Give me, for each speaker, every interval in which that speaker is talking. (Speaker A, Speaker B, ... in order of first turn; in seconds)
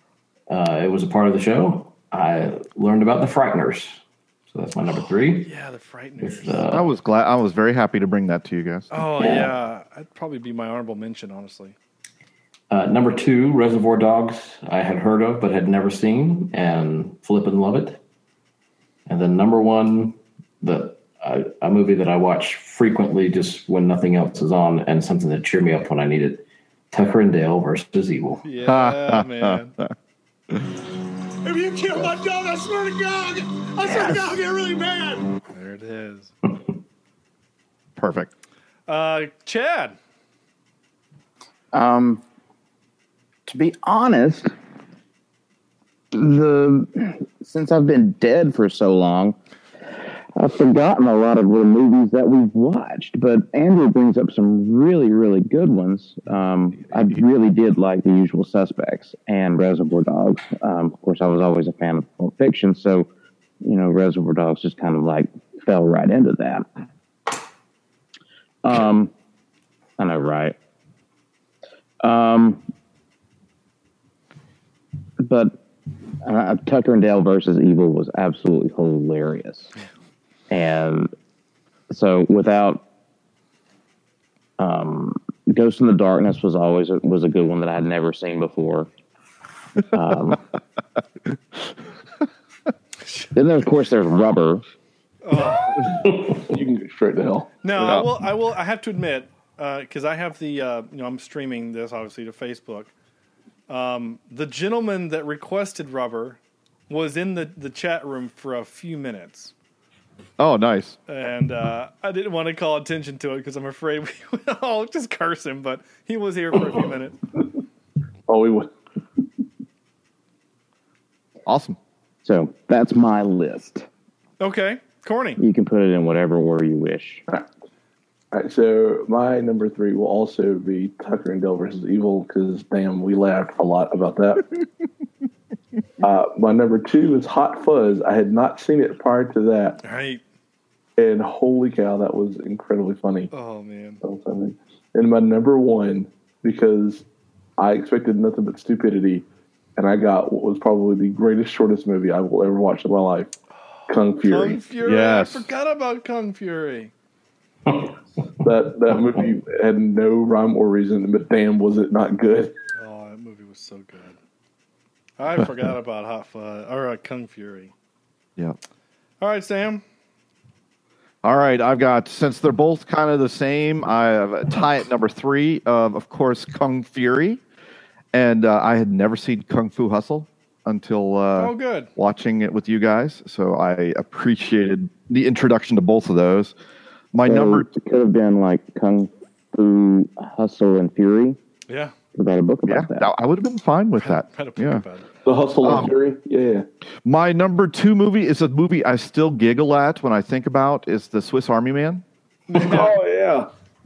Speaker A: 0.5-5.5, 6.2-6.9, 9.2-9.5, 12.7-18.0, 19.1-28.4
Speaker B: 5.0-6.6, 8.9-11.7, 28.4-29.8, 35.5-36.3, 38.9-40.0, 95.2-96.0, 97.6-102.9, 103.7-109.5, 111.1-117.2, 124.4-125.4, 139.8-140.2, 143.3-144.0, 153.9-156.9, 162.8-164.2, 165.2-167.7, 169.2-169.8, 181.4-181.9, 191.7-191.9, 194.0-195.1, 202.5-203.0
Speaker C: 6.7-9.2, 28.6-29.6, 38.0-38.3, 97.8-98.1, 110.4-111.0, 121.5-121.8, 154.8-155.5, 171.2-177.4, 178.1-186.5, 187.1-187.7, 192.7-194.8, 195.6-195.9, 197.0-202.0
Speaker D: 31.4-35.3
Speaker E: 41.7-42.2, 43.5-44.5, 46.1-49.4, 50.4-63.1, 63.6-66.7, 68.6-69.1, 70.0-70.5, 72.0-72.6, 75.2-75.6, 76.2-79.7, 80.5-81.1, 81.9-82.8, 84.6-88.9, 89.9-90.4, 93.3-94.6, 122.2-123.9, 125.4-127.2, 187.2-191.4, 192.1-193.1
Speaker F: 96.5-97.5, 118.3-118.7, 128.3-134.4, 136.0-139.8, 141.0-143.3, 144.0-147.0, 147.6-149.2, 149.8-153.3, 153.9-154.6, 158.4-162.5, 195.2-196.6, 202.6-203.5